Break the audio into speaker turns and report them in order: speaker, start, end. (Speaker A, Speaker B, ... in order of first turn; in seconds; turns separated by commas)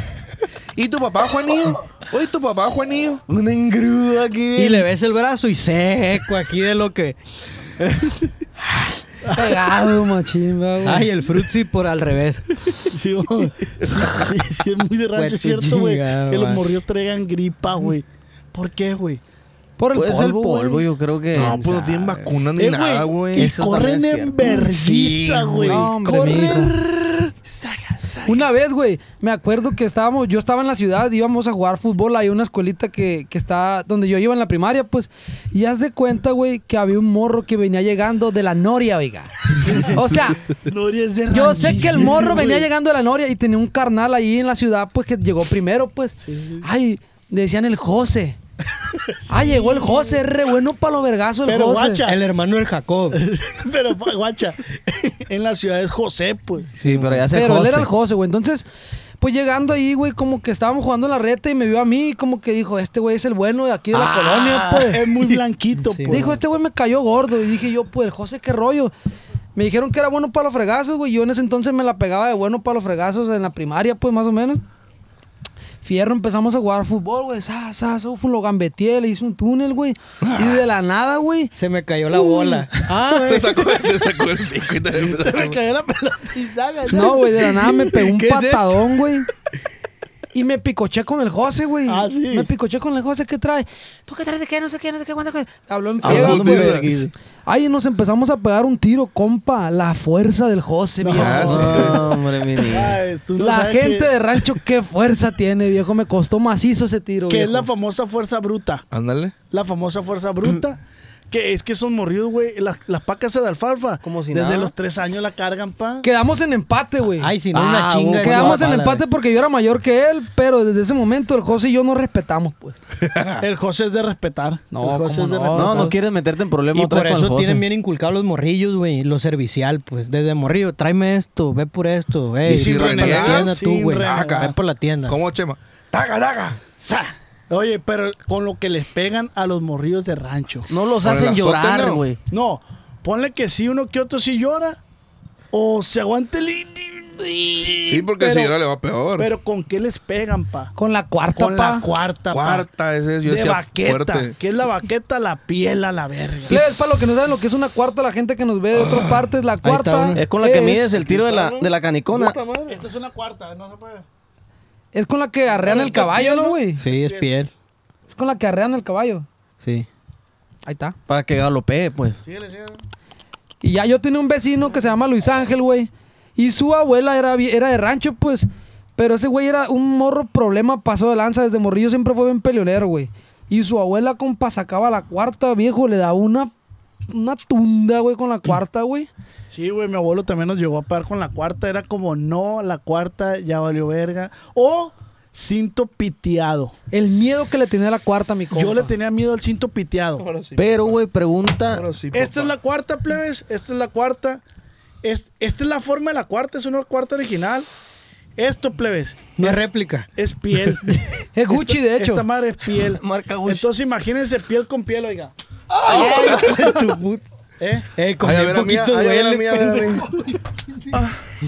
Speaker A: 0.8-3.2, Speaker B: 3.3-4.9, Speaker C: 4.5-7.2, Speaker D: 9.2-9.6, Speaker E: 9.3-11.1, Speaker C: 10.8-12.5, Speaker D: 12.9-19.2, Speaker C: 15.1-16.6, Speaker E: 19.8-20.9, Speaker B: 19.9-22.3, Speaker A: 21.3-23.5, Speaker D: 22.6-28.4, Speaker B: 23.3-24.4, Speaker C: 24.5-25.7, Speaker E: 25.6-26.8, Speaker E: 28.2-40.5, Speaker D: 39.6-40.0, Speaker D: 40.5-42.7, Speaker E: 41.3-48.4, Speaker D: 46.2-46.7, Speaker D: 49.2-50.2, Speaker E: 49.3-52.1, Speaker D: 51.5-52.2, Speaker C: 52.0-53.2, Speaker D: 53.1-56.7, Speaker B: 56.8-57.9, Speaker C: 56.8-57.2, Speaker E: 57.3-58.6, Speaker E: 59.2-65.0, Speaker C: 64.5-64.8, Speaker D: 64.8-66.4, Speaker C: 65.8-66.4, Speaker E: 66.1-68.9, Speaker E: 69.5-74.6, Speaker E: 75.8-81.5, Speaker A: 80.2-80.5, Speaker C: 81.5-83.6, Speaker A: 82.9-85.6, Speaker D: 84.9-88.3, Speaker E: 86.9-89.3, Speaker E: 90.3-96.9, Speaker D: 91.9-92.5, Speaker B: 96.0-97.1, Speaker A: 96.0-96.9, Speaker E: 97.5-101.5, Speaker D: 101.0-104.1, Speaker A: 101.2-102.1, Speaker B: 101.3-103.0, Speaker E: 103.4-107.7, Speaker D: 107.3-108.8, Speaker A: 108.9-109.3, Speaker D: 109.5-116.1, Speaker B: 114.0-114.7, Speaker E: 116.0-122.8, Speaker C: 117.2-119.0, Speaker B: 117.5-118.6, Speaker A: 123.0-123.4, Speaker D: 123.4-125.9, Speaker E: 124.7-125.9, Speaker B: 125.5-127.7, Speaker C: 126.7-135.2, Speaker A: 132.4-134.5, Speaker D: 132.5-134.5, Speaker A: 135.1-136.6, Speaker D: 137.5-140.7, Speaker B: 140.7-142.2, Speaker A: 141.0-142.0, Speaker D: 142.3-144.8, Speaker D: 145.5-148.6, Speaker A: 147.9-149.3, Speaker D: 149.2-150.7, Speaker E: 150.8-151.9, Speaker D: 151.3-152.7, Speaker A: 152.3-154.3, Speaker D: 153.2-156.6, Speaker E: 156.5-161.0, Speaker A: 158.7-159.2, Speaker C: 159.6-160.3, Speaker B: 160.2-162.4, Speaker A: 160.9-162.8, Speaker D: 162.7-164.0, Speaker E: 164.9-166.8, Speaker D: 165.5-167.3, Speaker C: 166.8-167.5, Speaker E: 168.1-169.2, Speaker E: 170.7-170.9, Speaker B: 171.1-172.2, Speaker D: 172.2-172.8, Speaker E: 173.6-186.5, Speaker E: 187.1-189.1, Speaker D: 189.5-196.7, Speaker E: 196.9-198.9, Speaker D: 198.5-200.3, Speaker A: 200.2-201.0, Speaker B: 200.6-201.9, Speaker A: 201.7-202.5, Speaker D: 202.1-204.4, Speaker D: 205.0-207.7, Speaker D: 208.4-209.6, Speaker C: 209.4-210.1, Speaker D: 210.1-215.3, Speaker E: 211.4-212.2, Speaker B: 212.8-213.7, Speaker C: 215.8-217.2, Speaker D: 217.6-217.9, Speaker C: 217.9-220.0, Speaker A: 218.2-220.0, Speaker B: 219.0-220.0